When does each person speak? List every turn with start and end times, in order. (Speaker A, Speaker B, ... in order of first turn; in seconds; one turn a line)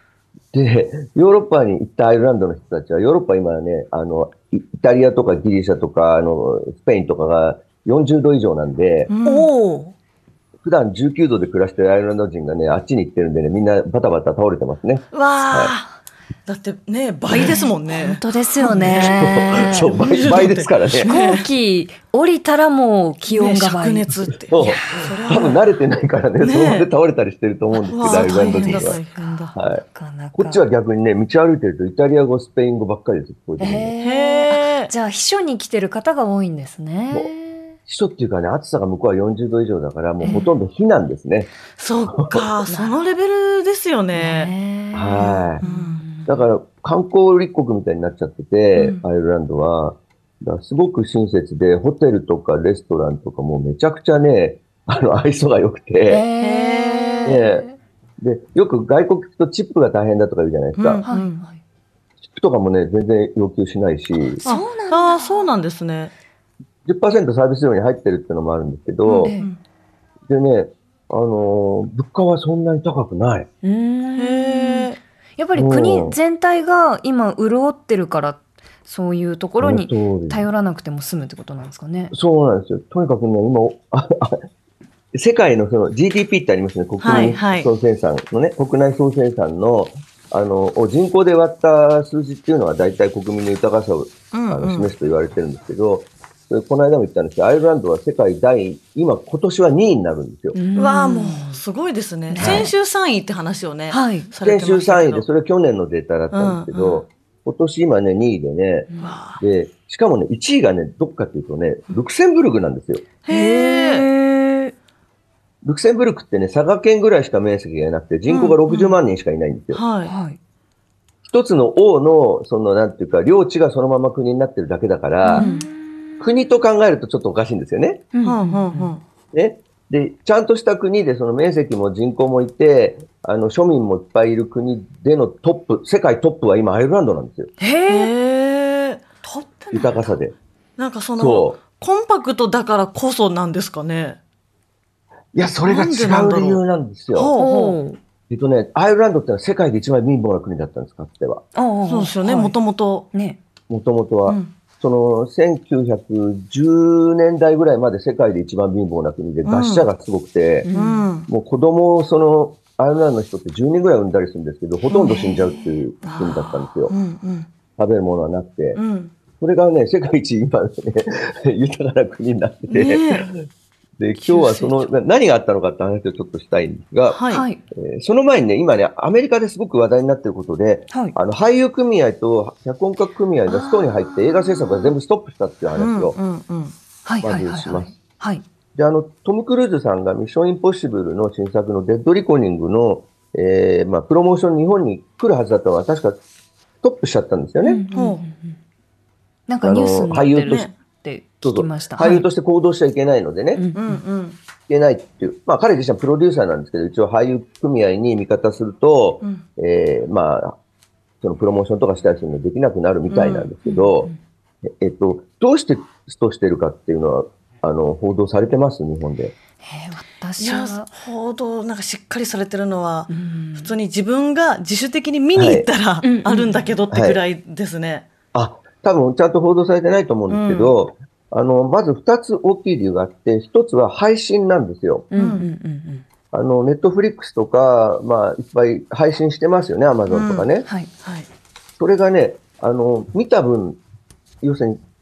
Speaker A: 0.5-9.1
Speaker B: 9.1-9.5
Speaker C: 9.2-9.9
Speaker A: 10.6-15.7
Speaker B: 15.1-15.9
Speaker B: 16.4-21.4
Speaker C: 17.3-20.0
Speaker A: 18.9-21.1
Speaker C: 21.0-25.4
Speaker B: 23.2-25.6
Speaker A: 24.5-29.0
Speaker B: 26.4-26.9
Speaker B: 27.9-29.5
Speaker C: 28.1-30.6
Speaker A: 29.5-29.8
Speaker A: 30.3-33.9
Speaker C: 33.6-37.7
Speaker B: 34.0-34.9
Speaker A: 37.9-41.5
Speaker C: 40.2-40.5
Speaker B: 41.8-44.5
Speaker A: 42.1-42.5
Speaker C: 42.7-43.0
Speaker C: 44.1-46.4
Speaker A: 44.9-45.6
Speaker B: 45.6-46.0
Speaker A: 46.2-56.2
Speaker C: 48.8-49.0
Speaker C: 56.1-57.8
Speaker B: 56.4-57.4
Speaker A: 57.2-57.6
Speaker A: 58.2-61.0
Speaker B: 60.8-61.4
Speaker C: 61.0-61.6
Speaker A: 62.2-64.4
Speaker C: 64.2-65.5
Speaker B: 64.5-66.1
Speaker A: 66.8-69.3
Speaker B: 69.0-69.6
Speaker C: 69.2-69.5
Speaker A: 70.3-73.5
Speaker C: 73.6-82.1
Speaker B: 74.2-75.0
Speaker A: 75.5-76.2
Speaker A: 79.6-80.4
Speaker A: 82.1-84.4
Speaker A: 85.1-100.6
Speaker B: 87.0-87.7
Speaker C: 87.0-87.4
Speaker B: 94.3-94.9
Speaker C: 100.5-101.6
Speaker B: 100.8-105.3
Speaker C: 102.3-102.7
Speaker A: 102.4-102.7
Speaker C: 103.9-104.3
Speaker A: 104.4-113.1
Speaker B: 106.3-107.0
Speaker C: 108.9-109.2
Speaker B: 109.0-109.4
Speaker B: 113.2-114.0
Speaker C: 113.3-114.7
Speaker A: 115.6-119.8
Speaker B: 118.3-118.9
Speaker B: 119.7-120.1
Speaker C: 120.0-120.4
Speaker A: 121.2-125.5
Speaker C: 125.2-126.2
Speaker B: 125.3-125.7
Speaker A: 126.2-128.0
Speaker C: 128.1-128.9
Speaker B: 128.2-129.0
Speaker A: 129.3-137.5
Speaker C: 137.6-138.1
Speaker B: 137.9-140.0
Speaker A: 139.7-140.3
Speaker B: 140.8-144.2
Speaker A: 141.2-141.6
Speaker A: 145.3-147.3
Speaker B: 145.7-146.6
Speaker B: 147.1-147.8
Speaker C: 147.4-148.0
Speaker A: 148.3-151.4
Speaker C: 151.5-152.6
Speaker B: 151.9-153.1
Speaker C: 153.1-153.4
Speaker A: 153.7-160.7
Speaker B: 154.3-154.5
Speaker B: 159.4-159.9
Speaker C: 160.6-161.1
Speaker B: 160.7-161.3
Speaker A: 161.3-166.9
Speaker C: 164.9-166.5
Speaker B: 166.9-167.5
Speaker A: 167.8-168.8
Speaker B: 168.7-169.1
Speaker A: 169.4-173.3
Speaker B: 172.7-173.3
Speaker A: 174.0-177.2
Speaker B: 174.2-174.9
Speaker B: 177.1-177.4
Speaker C: 177.3-177.6
Speaker A: 177.7-186.2
Speaker C: 183.5-184.9
Speaker B: 185.7-186.7
Speaker C: 187.1-188.4
Speaker A: 187.2-187.9
Speaker A: 188.7-196.2
Speaker A: 196.8-197.8
Speaker C: 197.6-198.6
Speaker B: 197.9-198.2
Speaker C: 199.5-202.2
Speaker A: 199.6-200.7
Speaker B: 200.4-200.7
Speaker A: 201.4-203.6
Speaker C: 203.5-204.0
Speaker B: 203.7-204.4
Speaker A: 204.7-210.6
Speaker A: 211.2-214.1
Speaker B: 213.1-213.6
Speaker C: 213.6-214.1
Speaker A: 214.6-219.3
Speaker C: 219.6-220.9
Speaker B: 220.4-228.1
Speaker C: 223.1-223.7
Speaker A: 225.3-225.7
Speaker C: 226.0-226.7
Speaker A: 226.9-227.2
Speaker A: 228.3-235.1
Speaker B: 230.3-230.7
Speaker C: 235.1-236.0
Speaker B: 235.1-235.5
Speaker A: 236.3-240.7
Speaker B: 240.1-240.4
Speaker A: 241.8-243.8
Speaker A: 244.4-244.8